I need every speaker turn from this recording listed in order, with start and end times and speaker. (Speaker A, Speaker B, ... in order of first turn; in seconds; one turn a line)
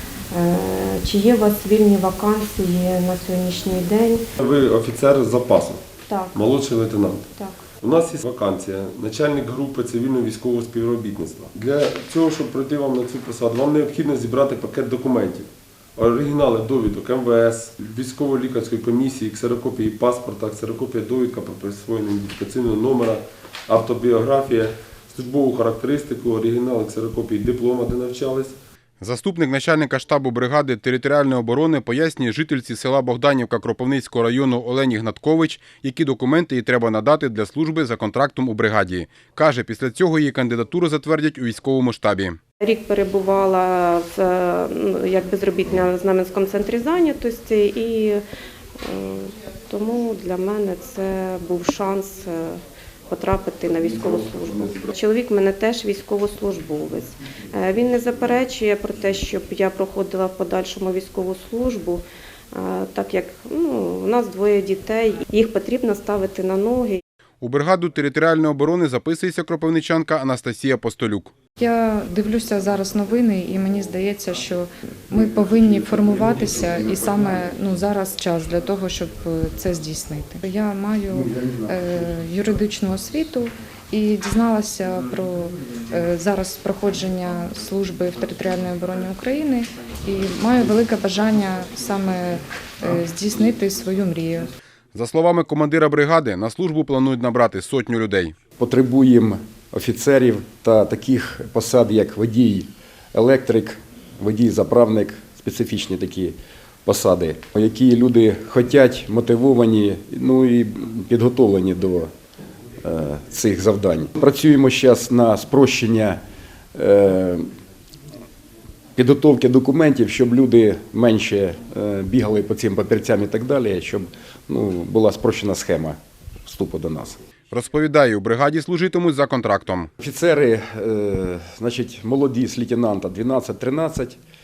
Speaker A: 0.3-4.2
Speaker B: 4.4-5.8
Speaker A: 6.1-6.3
Speaker B: 6.3-7.3
Speaker B: 7.8-28.6
Speaker C: 29.0-42.4
Speaker A: 42.6-48.2
Speaker A: 48.8-67.0
Speaker C: 67.4-71.3
Speaker D: 71.6-94.5
Speaker C: 94.9-98.3
Speaker E: 98.6-112.1
Speaker E: 112.8-116.2
Speaker E: 116.7-117.5
Speaker E: 119.0-127.2
Speaker C: 127.5-129.9
Speaker E: 130.0-134.2